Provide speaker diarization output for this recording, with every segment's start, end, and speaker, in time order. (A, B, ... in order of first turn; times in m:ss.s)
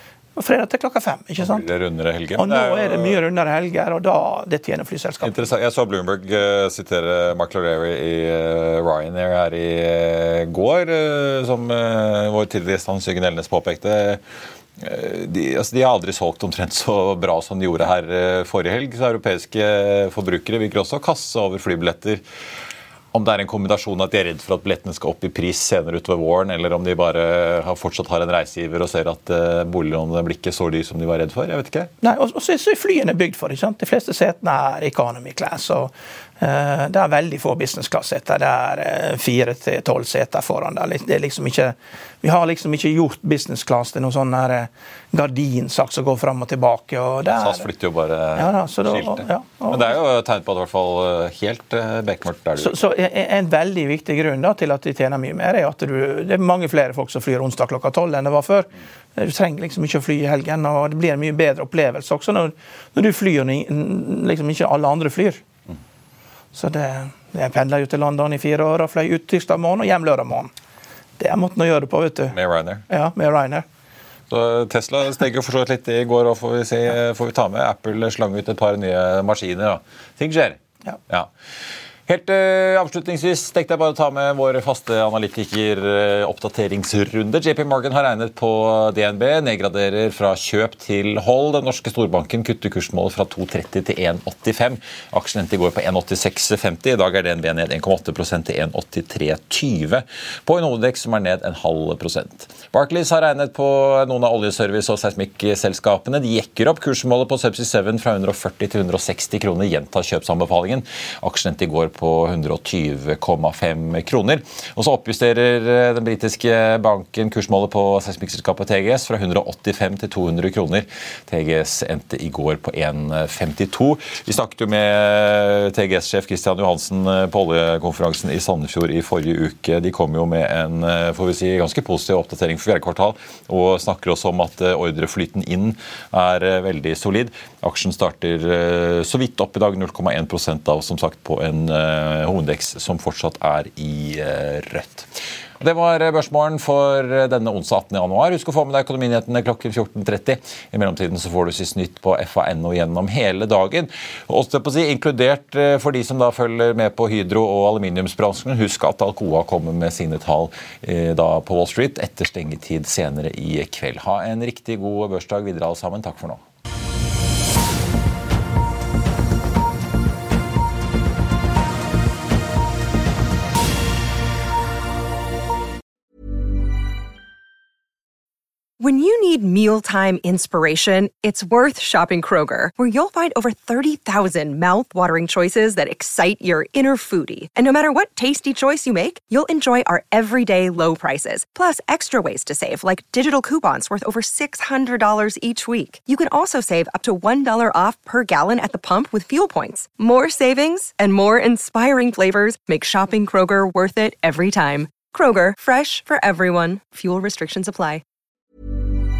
0:00.4-0:01.6 A
0:01.4-0:03.2 B
0:02.4-0:05.3 A
0:05.2-0:14.2 B
0:14.8-0:22.2 B
0:23.1-0:31.9 B
0:32.0-0:47.6 A
0:47.3-0:52.8 B
0:48.3-0:49.9 A
0:52.6-1:05.4 A
1:06.5-1:10.5 A
1:11.2-1:12.4 A
1:12.3-1:12.8 B
1:12.9-1:13.6 A
1:14.3-1:21.3 B
1:22.1-2:46.4 B
2:58.8-3:28.0 C